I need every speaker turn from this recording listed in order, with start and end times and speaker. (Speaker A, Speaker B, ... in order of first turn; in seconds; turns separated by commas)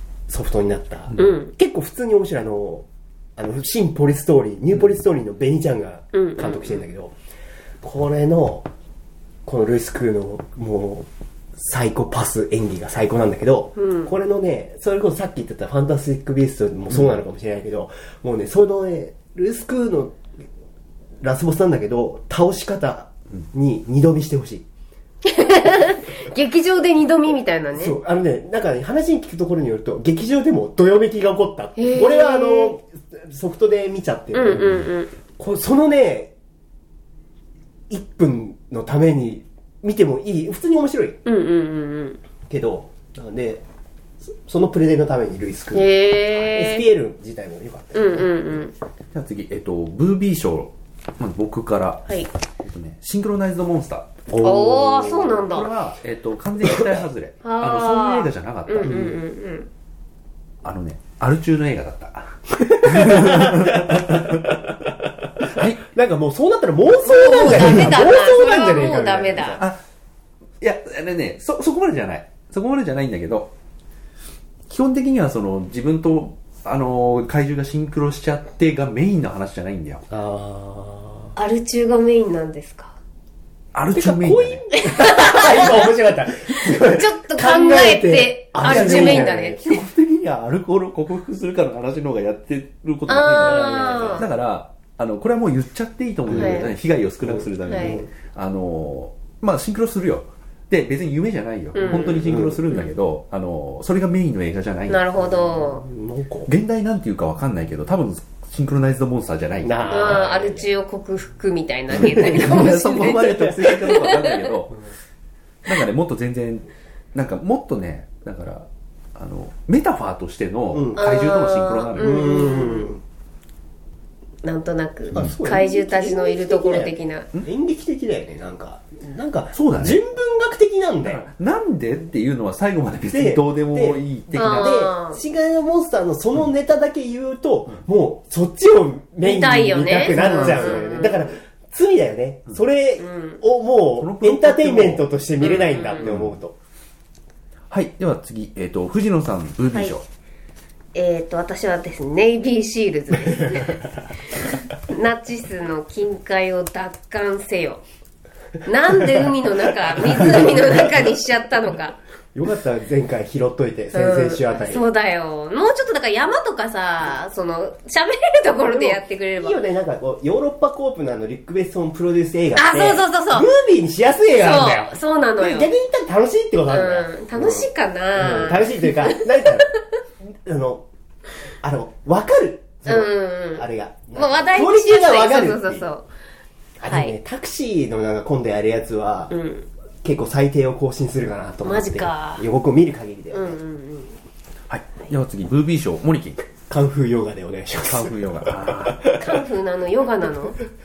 Speaker A: 0.3-7.1, Speaker B: 1.2-1.5, Speaker B: 6.1-6.8, Speaker A: 7.8-8.7, Speaker A: 9.4-20.2, Speaker B: 13.8-14.1, Speaker A: 21.2-24.7, Speaker B: 25.2-28.0, Speaker A: 27.7-34.9, Speaker B: 31.8-32.7, Speaker B: 34.3-35.1, Speaker A: 35.4-36.3, Speaker A: 37.9-41.2, Speaker B: 41.2-42.2, Speaker A: 42.5-43.6, Speaker A: 44.2-48.6, Speaker B: 45.7-46.9, Speaker B: 47.9-48.7, Speaker C: 49.1-54.3, Speaker A: 54.3-55.4, Speaker B: 54.4-55.7, Speaker C: 55.4-59.1, Speaker A: 56.7-57.0, Speaker B: 57.4-59.7, Speaker A: 58.8-59.2, Speaker C: 60.6-64.6, Speaker A: 62.5-69.7, Speaker C: 65.5-65.8, Speaker B: 67.0-69.6, Speaker C: 67.4-67.9, Speaker C: 70.6-73.5, Speaker C: 74.7-80.0, Speaker A: 80.1-81.3, Speaker B: 81.3-83.0, Speaker C: 83.7-84.6, Speaker A: 83.9-89.6, Speaker B: 84.7-85.9, Speaker B: 86.8-89.8, Speaker C: 88.6-105.0, Speaker B: 93.1-94.2, Speaker A: 93.3-94.3, Speaker A: 96.3-98.1, Speaker B: 96.3-96.7, Speaker B: 97.7-98.0, Speaker B: 101.7-102.9, Speaker A: 101.9-102.6, Speaker B: 104.9-105.8, Speaker A: 105.2-106.5, Speaker C: 106.5-110.2, Speaker A: 109.6-110.7, Speaker B: 109.9-114.4, Speaker A: 111.9-114.0, Speaker C: 111.9-114.8, Speaker C: 115.6-122.5, Speaker A: 120.7-121.1, Speaker B: 121.0-122.9, Speaker A: 122.0-123.0, Speaker B: 124.4-127.3, Speaker A: 125.1-131.2, Speaker C: 129.5-130.0, Speaker C: 131.0-134.7, Speaker A: 133.1-146.5, Speaker B: 134.3-135.2, Speaker B: 139.2-141.2, Speaker C: 140.1-141.1, Speaker B: 143.0-143.4, Speaker C: 144.0-145.1, Speaker B: 145.4-146.1, Speaker C: 146.0-146.4, Speaker C: 147.7-150.0, Speaker B: 150.9-153.8, Speaker A: 153.4-153.9, Speaker B: 154.7-157.8, Speaker B: 158.6-161.9, Speaker A: 159.8-161.1, Speaker A: 162.3-164.8, Speaker B: 163.9-169.6, Speaker A: 168.7-180.8, Speaker B: 172.5-173.5, Speaker B: 174.3-175.7, Speaker B: 176.7-179.8, Speaker A: 181.6-185.9, Speaker B: 182.8-186.1, Speaker A: 186.8-189.3, Speaker B: 186.8-187.1, Speaker B: 189.3-189.7, Speaker A: 190.0-193.6, Speaker B: 191.6-192.4, Speaker B: 193.3-194.2, Speaker C: 194.7-196.5, Speaker A: 196.7-199.2, Speaker C: 197.8-199.1, Speaker B: 199.2-200.6